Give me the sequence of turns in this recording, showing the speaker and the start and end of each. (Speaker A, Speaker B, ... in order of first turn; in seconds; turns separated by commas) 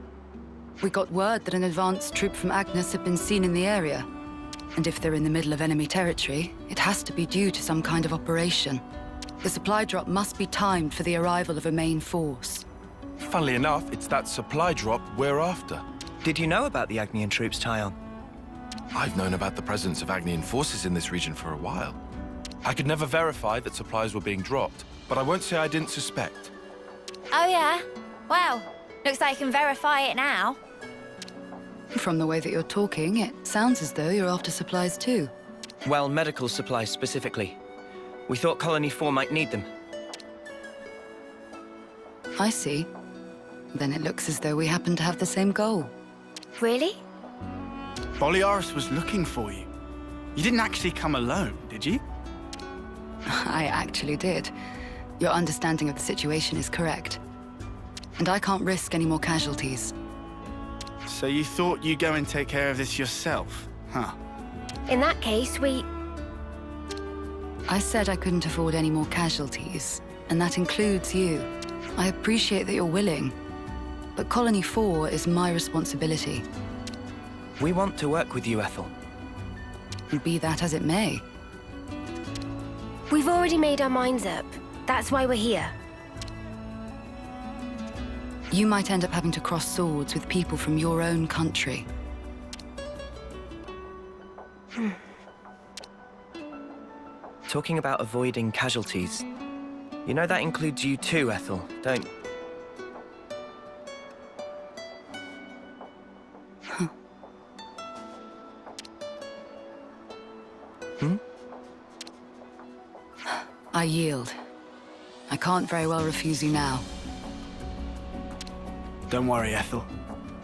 Speaker A: 0.8-4.1, Speaker A: 4.8-8.8, Speaker A: 9.4-12.7, Speaker B: 13.2-15.8, Speaker C: 16.2-18.0, Speaker B: 18.9-22.0, Speaker B: 22.6-26.5, Speaker D: 27.3-30.6, Speaker A: 31.9-35.3, Speaker C: 35.9-37.6, Speaker C: 38.3-39.7, Speaker A: 42.4-42.9, Speaker A: 43.7-45.9, Speaker D: 46.6-47.0, Speaker E: 48.2-49.7, Speaker E: 50.4-52.0, Speaker A: 53.3-54.5, Speaker A: 55.2-57.2, Speaker A: 58.2-60.0, Speaker E: 61.0-64.2, Speaker D: 64.9-65.9, Speaker A: 67.7-73.4, Speaker A: 74.2-76.5, Speaker C: 77.6-78.9, Speaker A: 80.1-81.2, Speaker D: 83.1-85.8, Speaker A: 88.5-91.9, Speaker C: 97.5-99.2, Speaker C: 100.0-102.1, Speaker A: 113.3-114.4, Speaker A: 115.3-116.9, Speaker E: 119.1-119.9